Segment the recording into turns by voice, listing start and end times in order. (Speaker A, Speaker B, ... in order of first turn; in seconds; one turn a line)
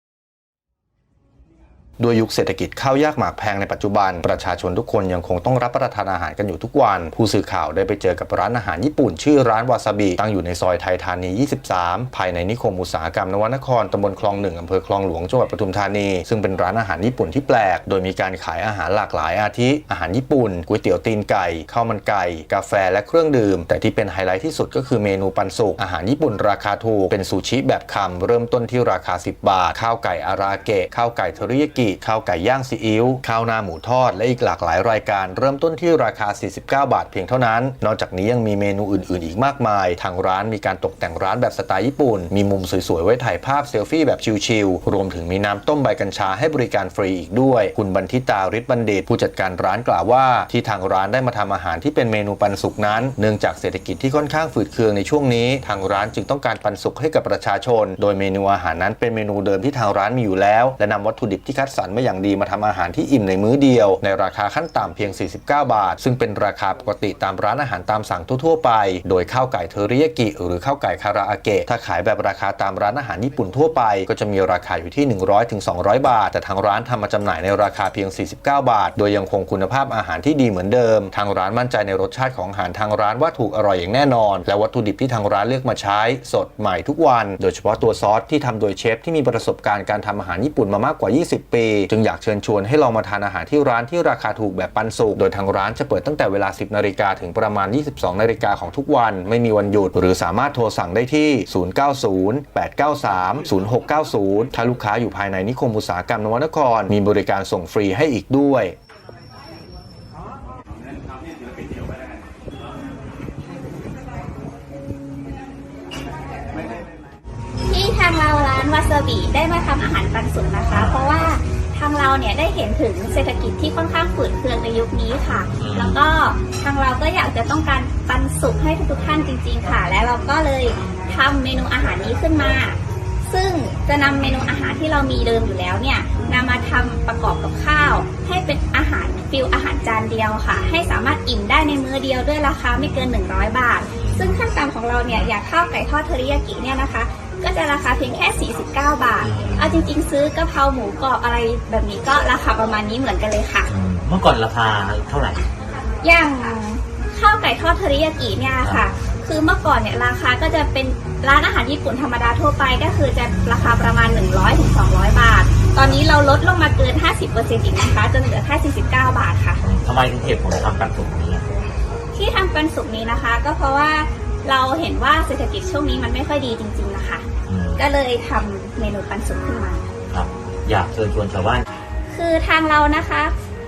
Speaker A: 2.0-108.8
Speaker B: 117.7-153.7
Speaker C: 120.7-121.0
Speaker C: 125.6-126.0
Speaker C: 144.0-144.4
Speaker C: 149.2-149.9
Speaker C: 153.7-155.5
Speaker B: 156.0-169.6
Speaker C: 158.6-158.9
Speaker C: 169.6-171.5
Speaker B: 172.1-177.3
Speaker C: 177.5-177.8
Speaker B: 177.8-179.8
Speaker C: 180.1-181.7
Speaker B: 182.1-183.3